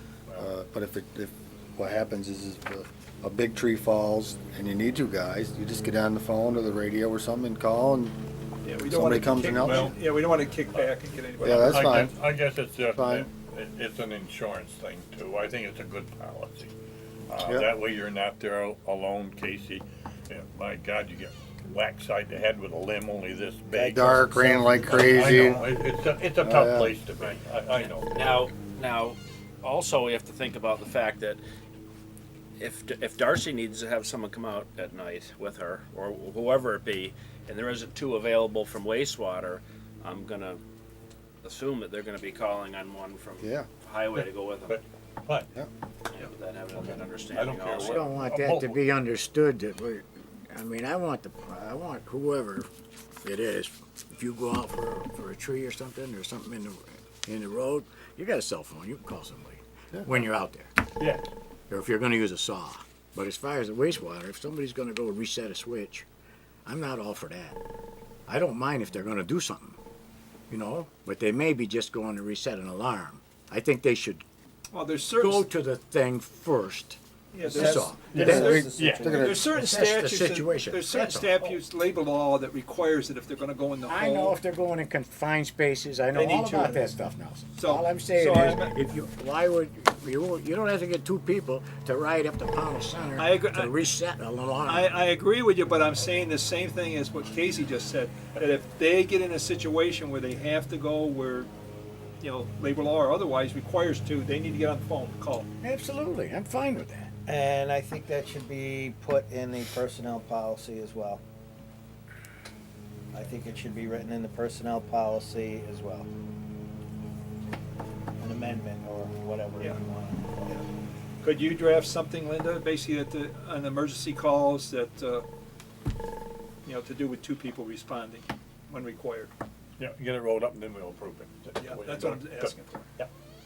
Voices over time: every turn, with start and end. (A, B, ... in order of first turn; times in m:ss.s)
0:00.3-0:08.2 A
0:08.6-0:12.0 B
0:08.9-0:10.0 A
0:09.6-0:09.9 C
0:10.7-0:16.7 C
0:11.4-0:12.1 A
0:12.9-0:13.3 A
0:17.3-0:28.4 C
0:17.4-0:17.7 A
0:23.7-0:25.7 A
0:26.4-0:26.9 A
0:27.2-0:31.4 D
0:32.6-0:40.6 D
0:41.4-0:44.8 D
0:43.4-0:43.7 A
0:44.1-0:45.5 C
0:46.1-0:48.1 D
0:46.7-0:48.8 C
0:47.8-0:52.7 E
0:53.2-1:00.8 E
1:01.7-1:06.1 E
1:06.6-1:07.6 E
1:08.3-1:09.8 E
1:10.5-1:14.2 E
1:14.7-1:15.5 B
1:15.2-1:17.0 E
1:17.3-1:24.4 B
1:17.5-1:18.7 E
1:17.5-1:19.5 A
1:18.1-1:19.2 C
1:19.4-1:21.4 E
1:23.9-1:34.9 E
1:26.1-1:26.9 B
1:27.5-1:28.8 B
1:33.2-1:33.7 B
1:34.6-1:41.5 B
1:42.2-1:45.4 B
1:45.6-1:47.1 E
1:47.3-1:51.2 F
1:53.1-1:56.1 F
1:58.2-2:00.6 F
2:01.2-2:05.2 B
2:06.6-2:09.3 B
2:09.8-2:13.1 C
2:11.6-2:12.8 B